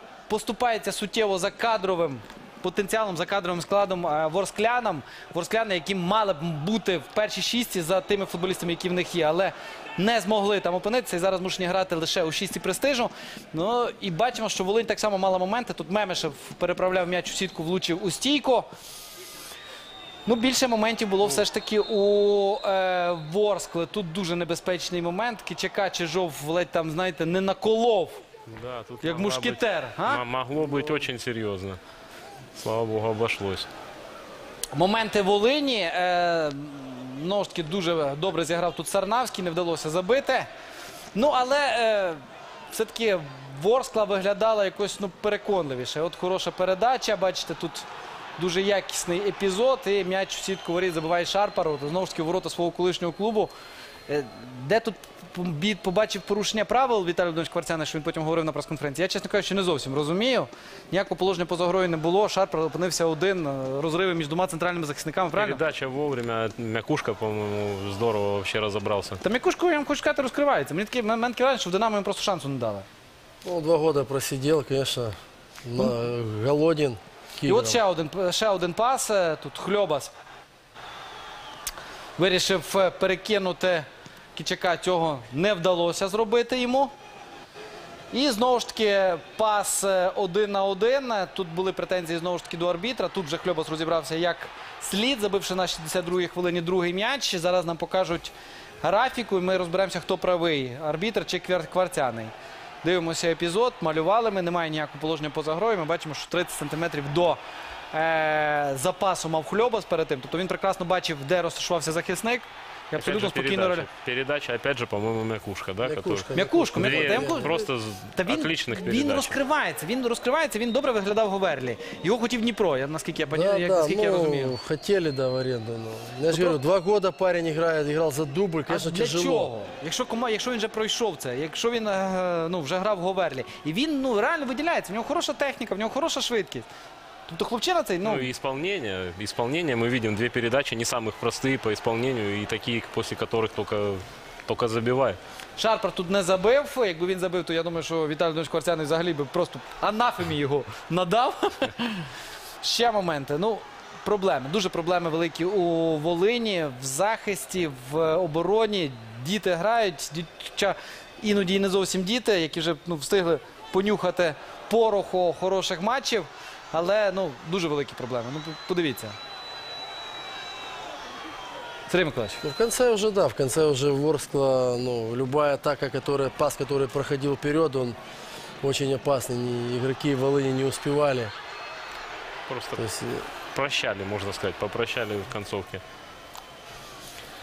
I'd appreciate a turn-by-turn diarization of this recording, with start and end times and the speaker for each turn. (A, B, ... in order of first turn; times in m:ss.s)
0:00.3-0:18.7 A
0:20.2-0:28.2 A
0:28.5-0:31.8 B
0:29.0-0:30.2 A
0:32.6-0:33.7 B
0:34.7-0:40.5 A
0:41.1-0:42.2 A
0:42.7-0:53.5 A
0:54.1-1:05.6 A
1:05.3-1:09.2 B
1:09.2-1:12.8 A
1:13.4-1:17.8 C
1:17.4-1:20.1 A
1:22.2-1:26.9 A
1:28.1-1:47.4 A
1:47.9-1:53.9 A
1:53.0-1:59.4 B
1:55.8-1:57.5 C
1:56.3-1:57.6 A
1:58.2-2:04.6 A
2:03.3-2:09.5 C
2:06.3-2:06.6 A
2:08.7-2:16.7 A
2:17.3-2:18.3 A
2:18.0-2:25.2 B
2:25.6-2:32.1 A
2:32.6-2:49.2 A
2:51.9-2:52.4 A
2:52.4-2:58.0 C
2:58.6-3:01.3 C
3:02.5-3:02.8 B
3:02.8-3:03.3 C
3:03.5-3:05.8 B